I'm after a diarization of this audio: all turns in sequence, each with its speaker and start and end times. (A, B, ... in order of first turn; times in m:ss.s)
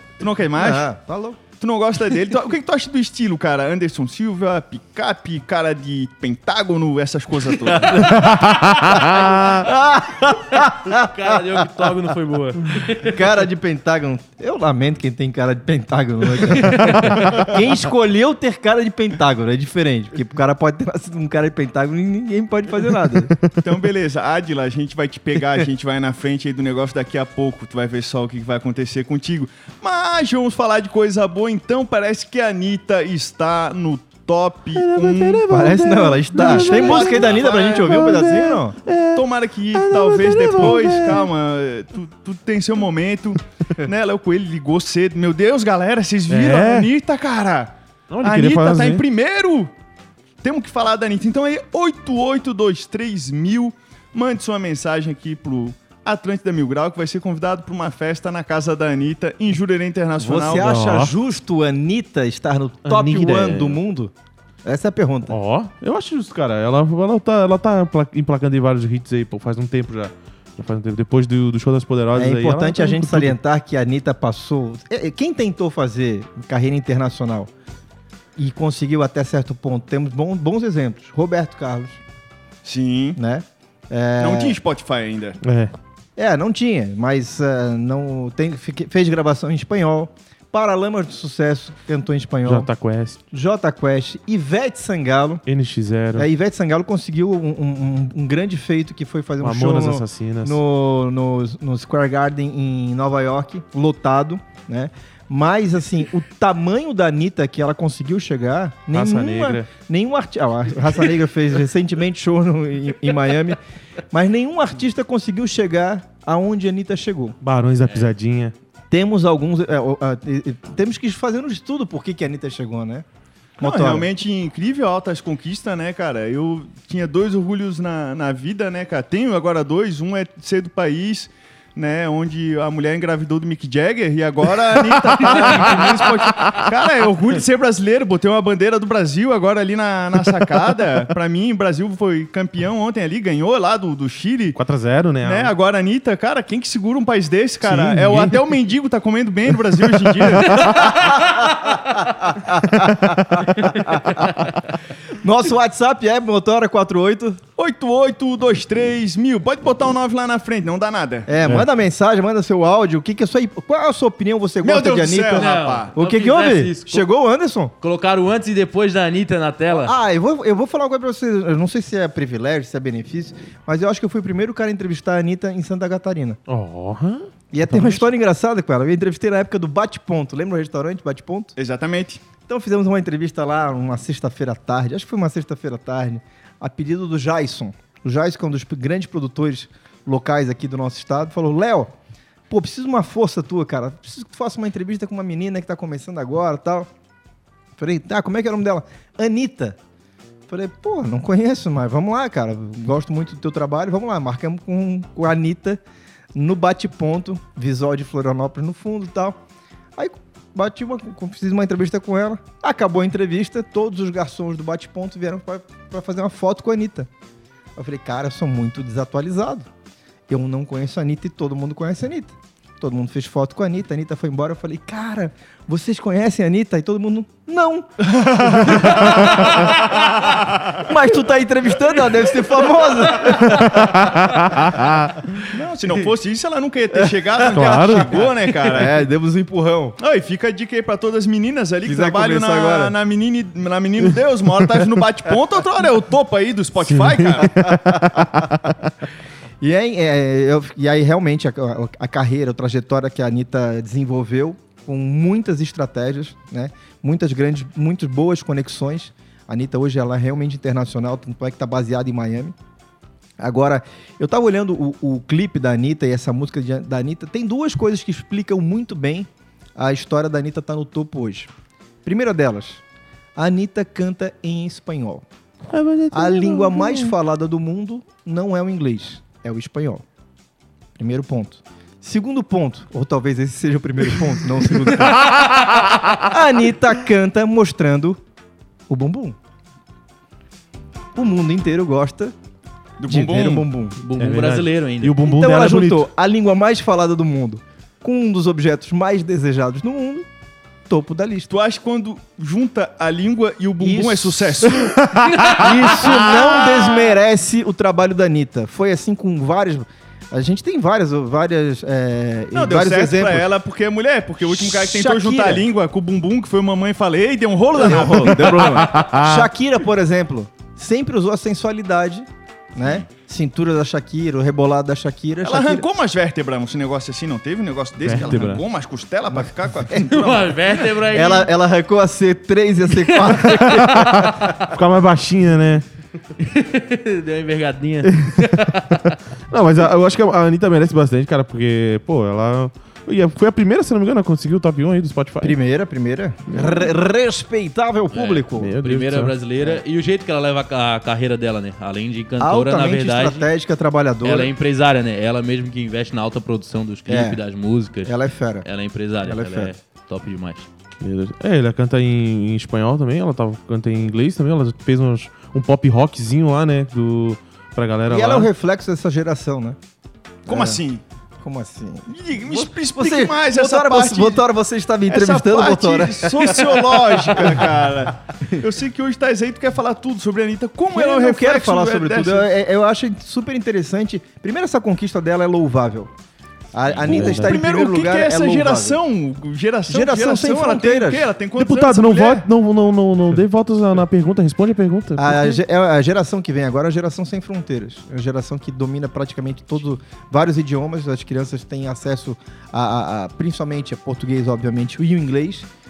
0:00.2-0:00.9 A
0:00.6-0:01.4 B
0:01.6-0:08.4 A
0:08.0-0:09.6 C
0:09.0-0:11.8 B
0:10.6-0:13.2 D
0:13.0-0:23.3 B
0:16.9-0:17.5 C
0:23.6-0:35.4 A
0:34.8-0:41.2 C
0:35.5-0:38.8 B
0:36.4-0:38.0 A
0:39.2-0:49.7 A
0:46.3-0:46.9 C
0:48.1-0:49.0 C
0:50.4-1:00.7 A
1:00.2-1:04.1 B
1:00.6-1:01.1 C
1:02.9-1:03.8 C
1:04.6-1:05.3 B
1:05.3-1:13.3 C
1:12.1-1:17.5 B
1:18.4-1:22.0 B
1:22.6-1:23.2 A
1:23.2-1:24.6 B
1:24.2-1:25.4 A
1:25.4-1:25.7 C
1:26.2-1:32.7 B
1:32.5-1:33.2 C
1:33.3-1:35.4 B
1:35.5-1:36.3 C
1:36.2-1:53.6 B
1:39.4-1:40.6 C
1:48.9-1:49.7 C
1:54.1-1:57.4 B
1:57.4-1:58.5 C
1:57.8-1:58.1 D
1:58.9-2:03.1 B
2:03.6-2:04.1 B
2:03.6-2:24.6 A
2:14.9-2:16.7 C
2:24.6-2:25.5 C
2:25.2-2:31.1 A
2:27.6-2:28.4 C
2:31.2-2:34.4 B
2:32.8-2:33.4 C
2:35.1-2:37.4 B
2:37.6-2:41.3 A
2:41.3-2:47.7 B
2:44.6-2:45.9 A
2:45.4-2:47.1 D
2:47.8-2:49.9 D
2:49.8-2:56.4 B
2:56.5-2:58.0 C
2:57.5-3:01.5 B
3:01.6-3:02.2 A
3:02.5-3:11.9 B
3:12.5-3:16.9 B
3:17.8-3:19.8 B
3:20.5-3:25.8 B
3:26.3-3:29.4 B
3:30.0-3:37.1 B
3:37.8-3:39.7 B
3:40.3-3:48.1 B
3:48.1-3:50.8 A
3:48.6-3:49.3 B
3:50.8-3:54.0 B
3:53.5-3:55.2 C
3:55.5-3:59.1 A
3:57.5-3:58.2 C
3:58.7-4:00.0 B
4:00.0-4:07.6 A
4:01.8-4:03.0 B
4:06.8-4:08.8 C
4:07.4-4:08.3 B
4:09.6-4:22.6 B
4:23.4-4:31.5 B
4:32.0-4:32.8 B
4:33.4-4:35.2 B
4:35.7-4:37.1 C
4:36.1-4:40.0 B
4:41.0-4:45.5 B
4:45.0-4:46.3 C
4:46.2-4:48.2 B
4:48.9-4:49.4 B
4:51.1-4:52.4 B
4:53.0-4:53.6 A
4:53.1-4:54.0 B
4:54.0-4:55.2 D
4:54.2-4:56.1 C
4:55.2-5:00.3 B
5:00.9-5:01.5 B
5:01.5-5:05.0 A
5:03.8-5:04.6 B
5:04.9-5:05.7 C
5:05.3-5:05.6 D
5:05.6-5:13.5 B
5:12.5-5:18.8 A
5:14.4-5:15.7 B
5:17.8-5:25.8 B
5:18.8-5:19.5 C
5:22.8-5:23.0 A
5:25.4-5:30.6 A
5:28.0-5:28.6 C
5:29.3-5:30.4 B
5:30.0-5:31.5 D
5:31.1-5:34.6 B
5:33.6-5:35.8 C
5:36.4-5:39.1 D
5:38.0-5:38.5 C
5:39.5-5:45.6 C
5:45.4-5:48.8 B
5:46.5-5:46.9 C
5:48.1-5:53.5 D
5:48.6-5:49.3 C
5:52.4-5:54.5 B
5:54.2-6:00.7 D
5:57.1-5:57.4 B
5:58.0-5:58.7 B
5:59.2-5:59.7 B
6:01.0-6:08.5 C
6:08.1-6:09.8 B
6:10.5-6:10.8 B
6:10.5-6:11.0 A
6:11.4-6:17.7 B
6:12.1-6:14.4 A
6:15.1-6:22.5 A
6:20.9-6:26.1 B
6:26.7-6:29.0 B
6:27.1-6:27.6 C
6:27.1-6:32.5 A
6:29.9-6:31.3 B
6:31.6-6:35.6 C
6:35.2-6:45.7 B